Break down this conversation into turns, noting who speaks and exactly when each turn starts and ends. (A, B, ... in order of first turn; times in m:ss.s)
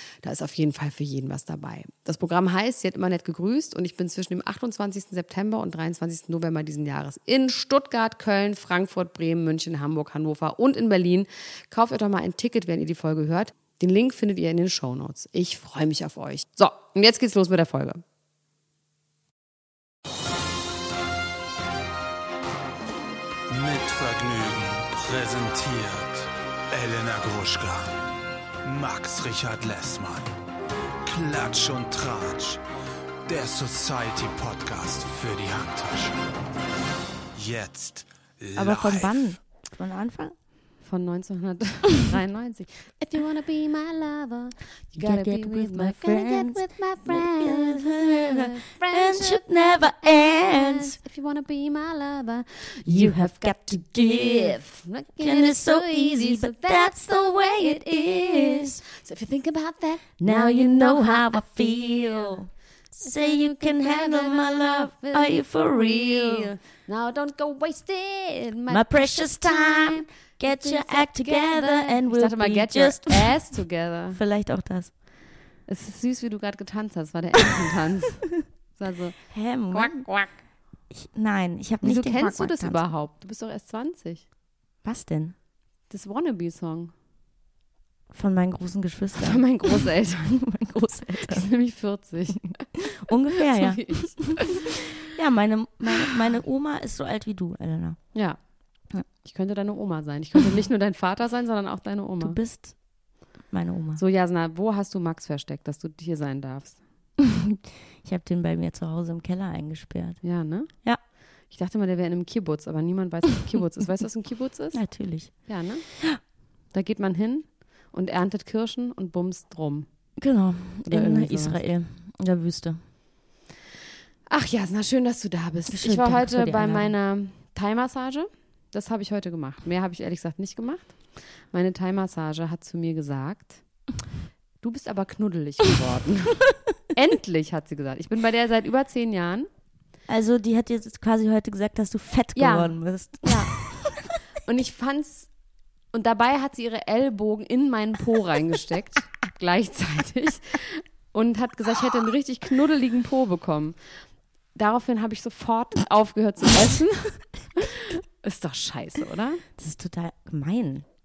0:00.2-0:18.0 A
0:23.5-0:27.9 B
0:28.6-0:30.3 B
0:31.0-0:32.6 B
0:33.2-0:36.2 B
0:37.3-0:39.3 B
0:38.6-0:40.3 C
0:40.8-1:02.4 A
0:45.0-0:51.0 C
0:52.8-0:54.6 C
0:55.2-0:58.8 C
1:00.2-1:06.5 C
1:03.0-1:14.2 A
1:08.7-1:13.3 C
1:14.1-1:14.9 C
1:15.7-1:19.2 A
1:19.3-1:20.1 C
1:19.7-1:20.4 A
1:20.9-1:22.8 C
1:21.8-1:24.2 A
1:24.8-1:25.3 C
1:25.9-1:26.9 A
1:28.1-1:31.5 C
1:29.2-1:30.4 A
1:31.3-1:32.6 A
1:32.8-1:38.0 C
1:33.4-1:34.8 A
1:39.2-1:42.4 A
1:42.2-1:42.7 C
1:43.5-1:44.0 C
1:44.0-1:46.8 A
1:47.2-1:50.2 C
1:50.2-1:50.7 A
1:51.5-1:54.8 A
1:54.7-1:55.5 C
1:55.4-1:55.9 A
1:56.7-1:59.9 A
2:00.2-2:02.8 C
2:00.8-2:01.6 A
2:04.3-2:13.6 A
2:05.7-2:06.9 C
2:14.6-2:19.5 A
2:20.1-2:24.0 C
2:22.4-2:23.6 A
2:24.4-2:25.3 A
2:25.9-2:33.8 A
2:34.5-2:39.4 A
2:39.6-2:40.8 C